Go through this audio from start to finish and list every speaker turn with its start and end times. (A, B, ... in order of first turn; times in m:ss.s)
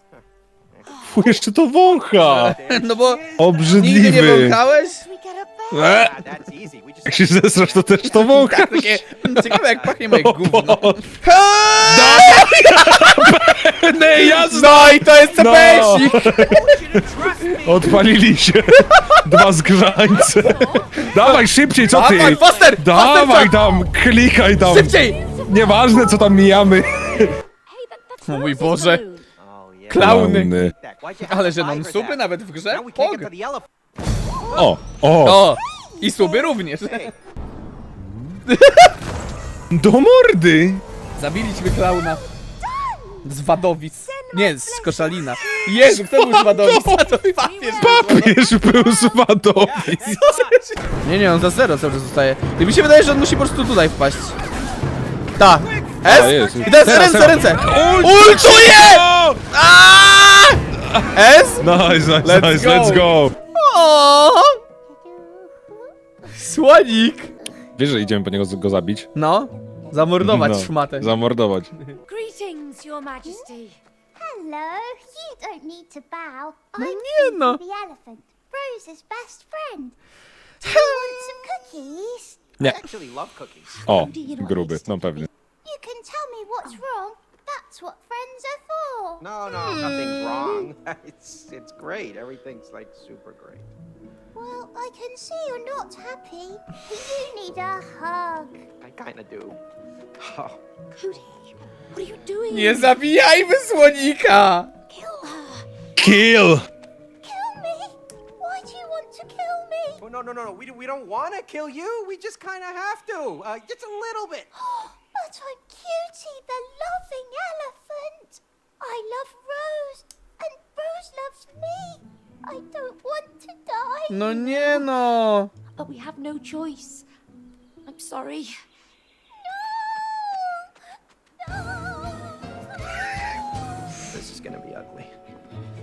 0:00.8-0:01.1 A
0:01.0-0:02.6 B
0:02.2-0:03.8 A
0:02.5-0:05.0 C
0:03.4-0:04.6 B
0:05.0-0:05.6 D
0:05.7-0:06.2 B
0:05.8-0:07.9 A
0:07.0-0:11.0 B
0:08.1-0:13.4 C
0:11.8-0:16.8 B
0:14.2-0:16.6 C
0:15.8-0:18.0 A
0:17.6-0:27.3 B
0:18.9-0:19.2 C
0:20.3-0:20.8 D
0:21.0-0:23.6 C
0:24.6-0:25.2 C
0:27.7-0:29.2 D
0:28.3-0:29.0 C
0:29.4-0:30.1 A
0:29.9-0:30.5 C
0:30.0-0:30.7 B
0:30.6-0:33.7 A
0:31.3-0:33.3 C
0:34.5-0:35.5 B
0:35.2-0:37.1 C
0:36.8-0:37.1 A
0:38.5-0:39.0 C
0:39.7-0:40.8 B
0:41.2-0:42.2 C
0:42.3-0:43.2 E
0:43.2-0:48.4 C
0:45.8-0:50.3 B
0:47.4-0:48.3 D
0:49.6-0:50.9 A
0:50.1-0:54.4 C
0:55.4-1:01.7 C
0:55.8-0:57.9 A
0:56.0-0:59.4 B
1:01.6-1:03.4 B
1:02.2-1:04.6 C
1:05.0-1:05.8 E
1:06.3-1:07.3 C
1:07.8-1:09.1 B
1:09.2-1:11.1 C
1:10.2-1:11.7 B
1:12.1-1:13.8 D
1:13.2-1:13.5 E
1:14.2-1:20.0 E
1:16.8-1:17.6 C
1:20.6-1:22.5 E
1:20.6-1:21.2 C
1:22.6-1:23.8 A
1:23.8-1:25.3 D
1:23.8-1:25.3 B
1:25.6-1:29.2 E
1:29.2-1:33.6 A
1:29.6-1:30.1 C
1:34.3-1:38.6 E
1:38.8-1:39.6 A
1:40.2-1:40.6 A
1:41.9-1:42.9 D
1:42.5-1:44.7 C
1:44.9-1:45.4 E
1:45.3-1:45.6 D
1:46.0-1:46.7 B
1:47.2-1:50.0 E
1:50.0-1:54.5 A
1:54.6-2:04.9 E
2:04.1-2:05.5 C
2:05.8-2:07.0 D
2:07.9-2:08.6 D
2:09.7-2:10.6 E
2:11.5-2:12.3 E
2:14.1-2:15.1 A